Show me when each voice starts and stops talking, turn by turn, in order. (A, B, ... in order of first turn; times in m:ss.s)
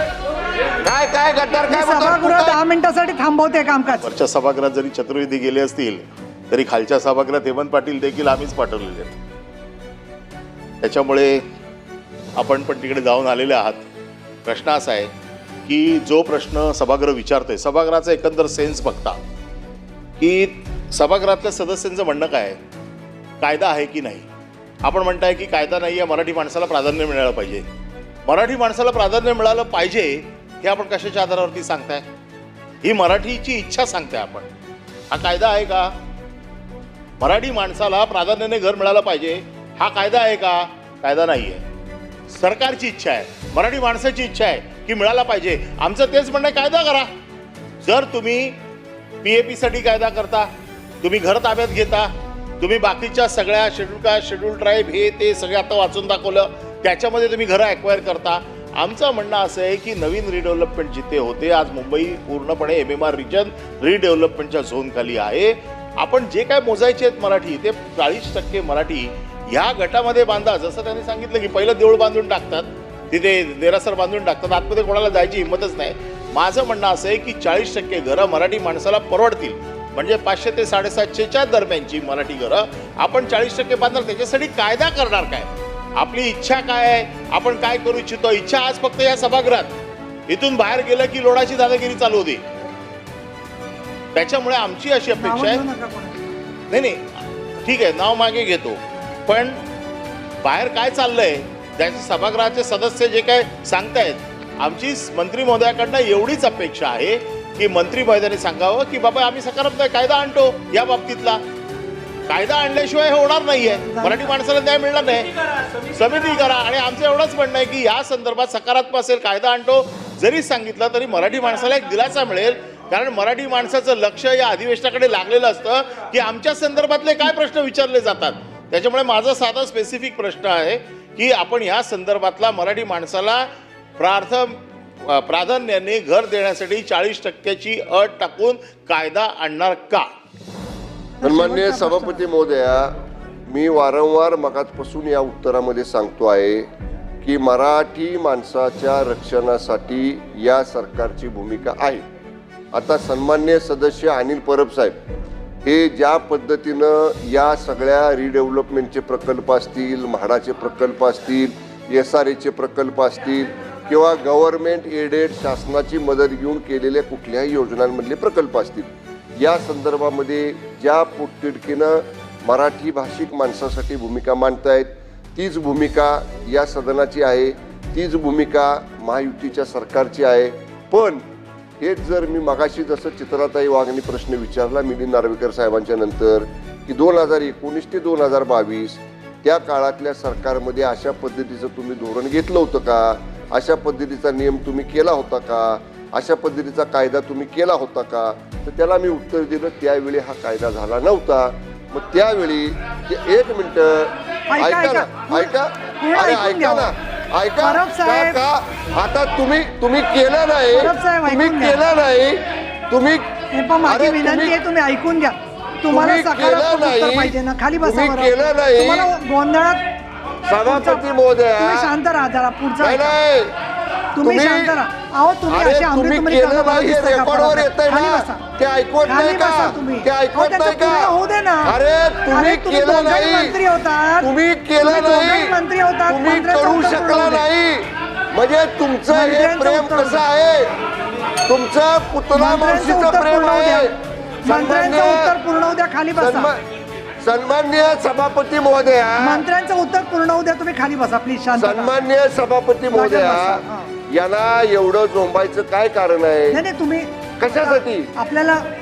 0:00.8-0:02.6 A
0:01.7-0:04.1 B
0:04.0-0:09.2 C
0:10.8-0:11.4 C
0:12.4-0:13.8 C
0:14.4-0:15.1 C
0:15.6-0:19.2 C
0:20.2-0:22.6 C
0:23.4-0:24.2 C
0:24.8-0:27.7 C
0:28.2-0:32.0 C
0:32.8-0:34.5 C
0:35.1-0:35.9 C
0:37.2-0:41.6 C
0:42.3-0:47.1 C
0:47.8-0:48.6 C
0:49.2-0:50.5 C
0:51.0-1:29.7 C
1:30.3-1:32.4 C
1:34.1-1:35.6 C
1:35.2-1:36.3 B
1:36.7-1:37.0 C
1:37.6-1:39.6 C
1:40.4-1:51.4 C
1:52.3-1:55.3 C
1:53.8-1:54.3 B
1:55.9-2:13.4 C
2:14.0-2:14.5 C
2:15.0-2:20.1 C
2:21.2-2:22.2 B
2:21.2-2:22.9 A
2:23.5-2:26.6 A
2:27.2-2:32.0 A
2:32.7-2:35.0 A
2:35.6-3:01.2 A
3:01.8-3:33.2 A
3:24.5-3:26.9 B
3:27.6-3:28.4 B
3:30.7-3:31.8 B
3:33.5-3:39.8 B
3:33.8-3:34.6 A
3:35.9-3:39.1 A
3:40.5-3:41.9 A
3:40.6-3:41.0 B
3:41.6-3:43.1 B
3:42.8-3:43.5 A
3:44.1-3:48.4 B
3:44.2-3:44.7 A
3:45.5-3:51.1 A
3:49.1-3:51.7 B
3:51.6-3:53.6 A
3:52.3-3:54.3 B
3:54.2-3:55.6 A
3:54.8-3:57.4 B
3:56.1-4:00.7 A
3:59.1-4:00.2 B
4:01.5-4:03.9 A
4:02.3-4:03.9 B
4:04.4-4:06.5 B
4:04.4-4:05.3 A
4:06.2-4:06.6 A
4:07.2-4:09.4 A
4:09.2-4:12.0 B
4:11.6-4:16.6 A
4:12.9-4:13.9 B
4:16.5-4:18.6 B
4:17.4-4:18.1 A